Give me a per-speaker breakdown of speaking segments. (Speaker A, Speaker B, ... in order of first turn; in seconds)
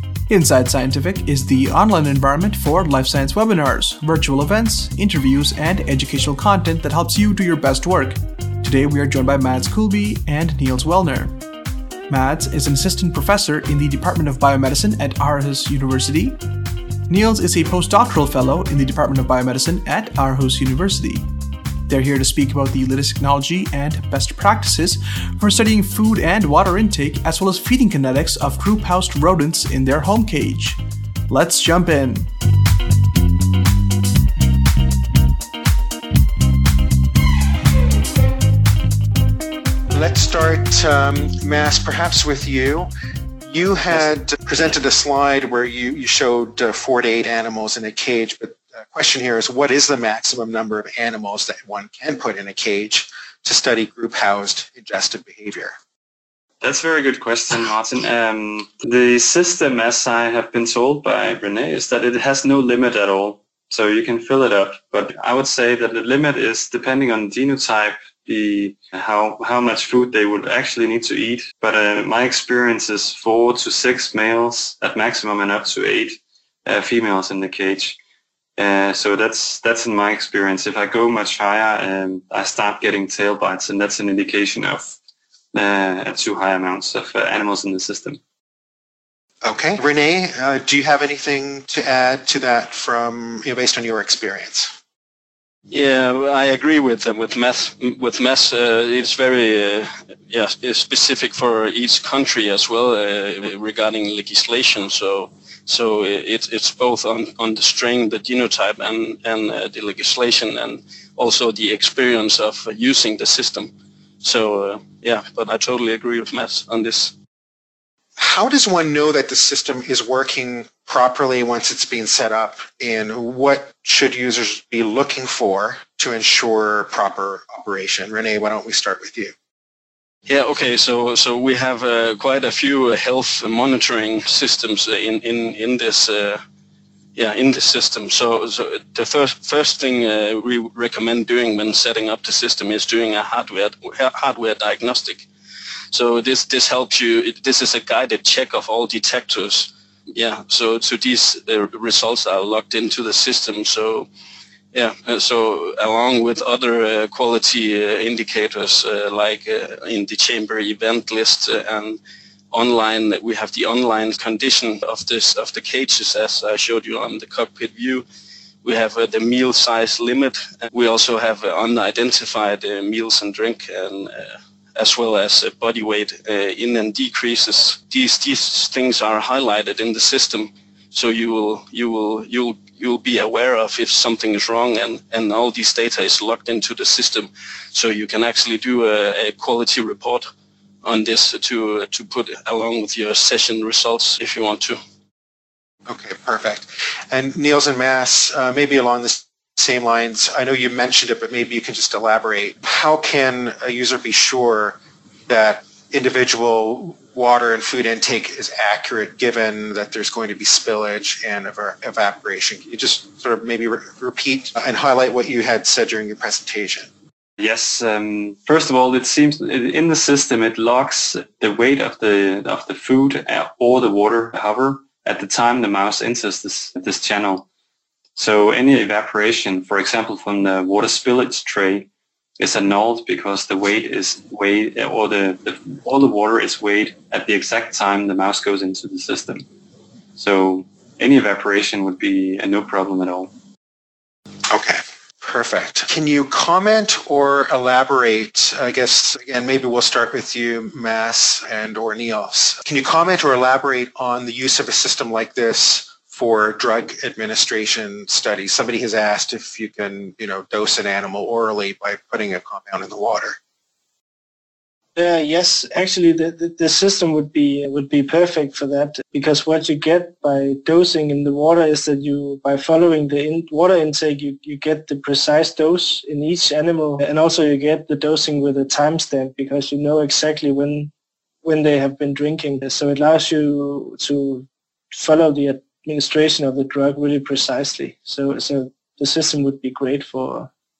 Speaker A: 0.3-11.4, 12.1-16.4, 17.1-21.3, 21.9-32.3
Speaker B: 39.9-42.9, 43.5-55.7, 89.4-94.7, 118.2-129.3, 195.9-216.9, 244.5-263.4
Speaker C: 56.6-78.0, 78.6-85.0, 85.5-88.2, 217.4-227.5, 228.2-239.5, 240.2-243.3
Speaker D: 95.7-117.1, 130.3-136.4, 137.2-145.3, 145.9-154.1, 154.7-162.0, 162.5-168.1, 168.6-190.3, 190.8-194.8
Speaker E: 265.0-280.9, 281.4-290.5